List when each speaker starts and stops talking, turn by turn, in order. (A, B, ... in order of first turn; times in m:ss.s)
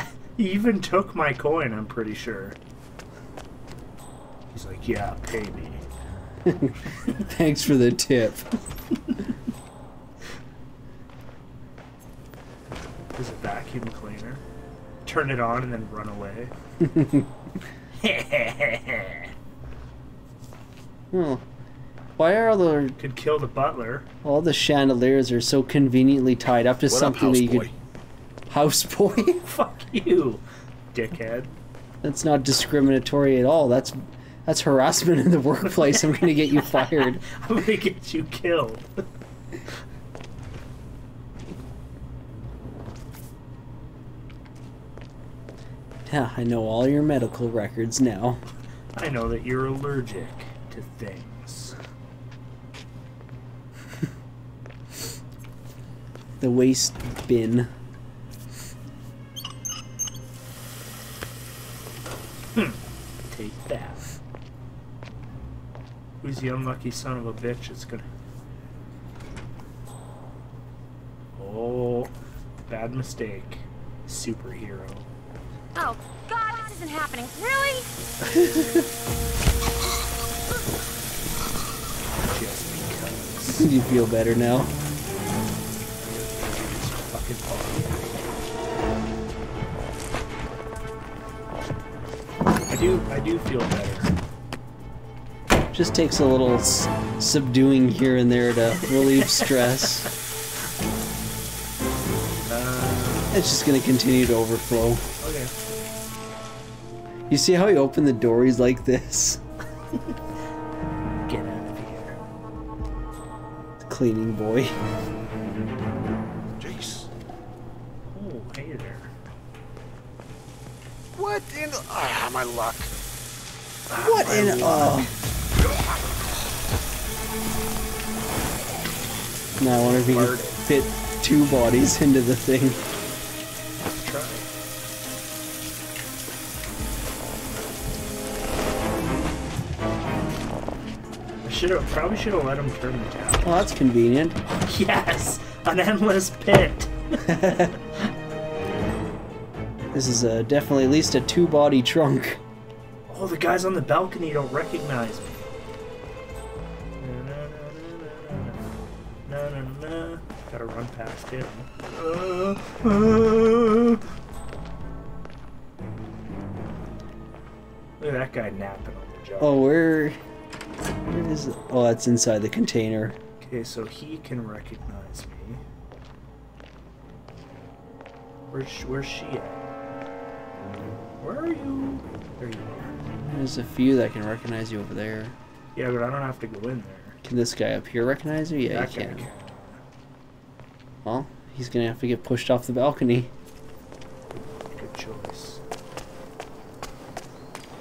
0:00.4-0:02.6 A
0:04.5-0:05.8 A
0:06.5-0:08.5 B
0:13.1-0:14.4 A
0:15.0-0:16.5 A
0:16.8-0:17.3 B
0:18.0-0:19.3 A
0:21.1-0:21.4 B
0:22.2-0:23.0 B
0:23.0-0:24.1 A
0:24.2-0:27.7 B
0:26.9-0:27.7 C
0:28.5-0:29.5 B
0:29.4-0:31.6 A
0:32.0-0:37.2 B
0:35.6-0:38.9 A
0:46.1-0:48.4 B
0:48.9-0:51.8 A
0:56.4-0:57.7 B
1:02.6-1:04.2 A
1:06.2-1:08.1 A
1:11.4-1:12.2 A
1:12.7-1:15.1 A
1:15.8-1:17.9 D
1:18.3-1:18.8 B
1:22.2-1:23.7 A
1:23.6-1:24.7 B
1:26.0-1:28.3 A
1:32.7-1:34.1 A
1:35.7-1:40.1 B
1:39.0-1:39.9 A
1:42.5-1:43.4 A
1:43.3-1:45.0 B
1:45.2-1:45.6 A
1:47.3-1:49.4 B
1:51.2-1:52.2 A
1:53.8-1:54.8 B
1:56.6-1:57.1 C
1:58.1-1:59.1 A
2:01.2-2:02.9 C
2:03.9-2:04.8 A
2:04.0-2:05.1 B
2:04.3-2:04.9 C
2:05.6-2:06.2 C
2:09.6-2:12.8 B
2:09.8-2:10.7 A
2:14.0-2:14.5 A
2:21.4-2:23.6 A
2:23.4-2:24.4 B
2:24.4-2:26.9 A
2:27.3-2:27.7 B
2:29.9-2:32.4 B
2:33.1-2:35.5 A
2:37.0-2:38.6 A
2:39.3-2:44.0 A
2:48.0-2:49.7 A
2:49.4-2:50.2 B
2:51.0-2:53.2 B
2:53.4-2:55.6 A
2:58.5-2:59.6 A
3:01.2-3:03.0 A
3:03.2-3:05.4 B
3:05.7-3:07.2 A
3:07.2-3:09.3 B
3:08.7-3:09.8 A
3:11.0-3:13.3 B
3:14.3-3:15.6 A